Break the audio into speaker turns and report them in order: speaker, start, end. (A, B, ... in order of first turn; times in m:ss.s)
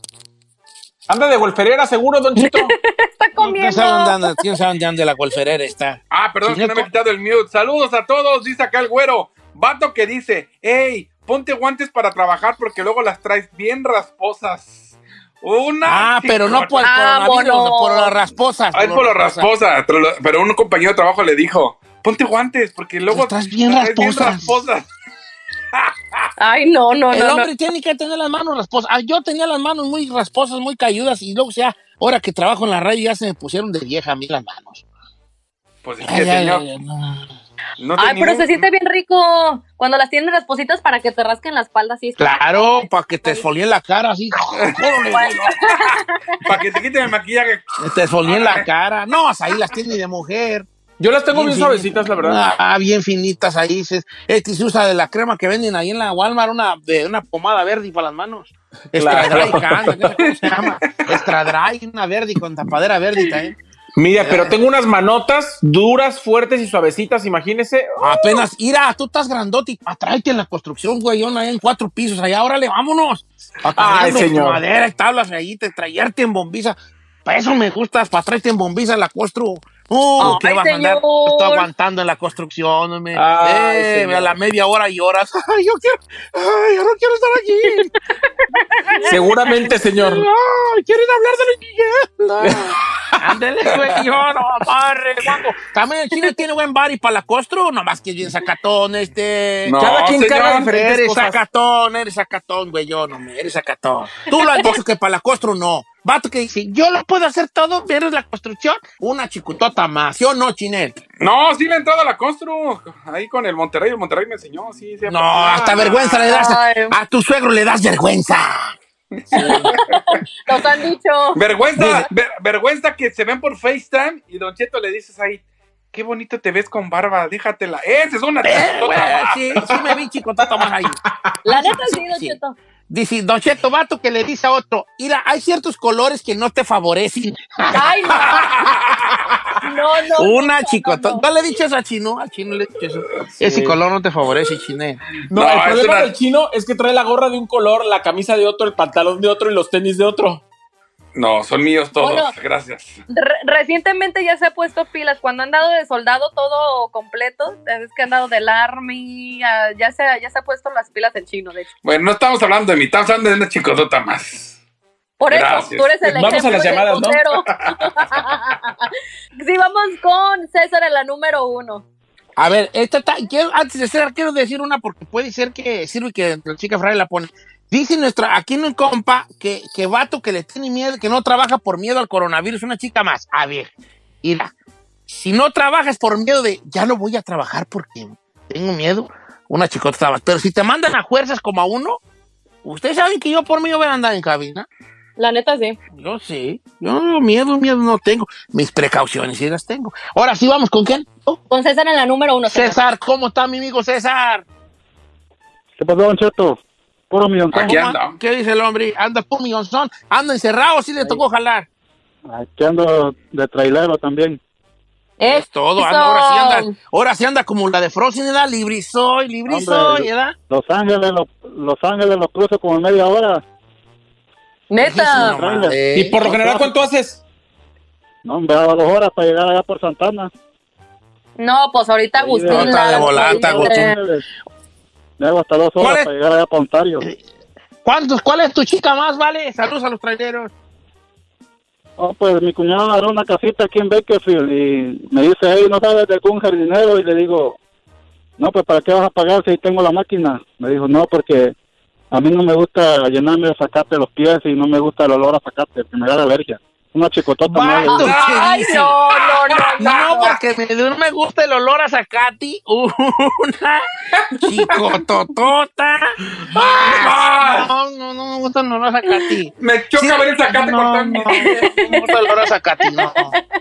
0:01.1-0:02.7 A
0:02.4-0:04.4 B
0:03.4-0:06.9 C
0:06.1-0:16.9 D
0:15.8-0:19.5 C
0:16.8-0:18.1 B
0:18.7-0:24.9 D
0:23.1-0:24.6 C
0:26.4-0:27.5 B
0:27.1-0:34.8 C
0:35.8-0:36.6 D
0:36.0-0:37.3 C
0:37.8-0:38.7 D
0:38.0-0:43.4 B
0:42.2-0:45.6 C
0:45.1-0:46.2 B
0:46.4-0:48.7 D
0:47.8-0:50.7 C
0:51.0-0:52.5 A
0:51.3-1:03.6 C
0:59.0-1:00.0 A
0:59.1-1:00.6 D
1:04.0-1:08.0 A
1:04.1-1:04.6 C
1:08.0-1:27.9 C
1:13.6-1:14.6 A
1:20.2-1:21.7 B
1:23.1-1:24.4 A
1:28.5-1:29.1 B
1:28.9-1:39.8 C
1:29.1-1:30.3 A
1:32.4-1:33.2 A
1:39.7-1:40.7 D
1:39.8-1:41.4 A
1:40.6-1:51.0 C
1:51.2-1:56.5 D
1:55.1-1:58.8 C
1:56.2-1:57.0 B
1:59.2-1:59.8 D
1:59.3-1:59.8 C
1:59.3-2:02.0 B
2:01.4-2:05.4 D
2:01.8-2:02.0 C
2:05.9-2:09.7 D
2:08.4-2:12.4 C
2:11.4-2:12.6 B
2:12.9-2:18.5 C
2:17.7-2:18.5 B
2:19.6-2:21.2 B
2:20.2-2:25.0 C
2:23.4-2:23.8 A
2:25.3-2:30.4 A
2:25.3-2:26.1 D
2:31.2-2:33.0 D
2:32.0-2:32.3 B
2:33.1-2:41.7 B
2:41.8-2:44.6 D
2:45.2-2:51.8 B
2:45.3-2:46.6 D
2:46.0-2:47.2 A
2:52.4-3:04.5 C
3:05.1-3:12.0 C
3:12.6-3:14.7 C
3:15.2-3:15.8 B
3:15.9-3:21.4 C
3:21.5-3:22.8 B
3:22.5-3:24.4 C
3:25.8-3:26.6 E
3:27.1-3:27.8 E
3:27.5-3:28.2 D
3:27.6-3:31.7 C
3:32.3-3:34.4 E
3:35.2-3:36.7 B
3:35.2-3:40.4 C
3:39.5-3:43.4 E
3:44.7-3:45.4 B
3:44.8-3:46.3 C
3:45.2-3:46.8 E
3:45.9-3:47.2 A
3:48.2-3:50.3 E
3:51.4-3:54.0 B
3:52.2-3:54.2 E
3:52.5-3:54.0 C
3:55.2-3:57.0 E
3:55.8-3:56.1 C
3:57.8-4:00.5 C
4:02.0-4:07.6 E
4:08.4-4:11.6 E
4:12.1-4:18.1 E
4:17.5-4:19.0 C
4:17.9-4:20.4 B
4:18.0-4:20.4 D
4:19.8-4:23.9 C
4:24.4-4:33.4 C
4:26.5-4:27.7 D
4:29.6-4:31.5 D
4:31.3-4:33.4 B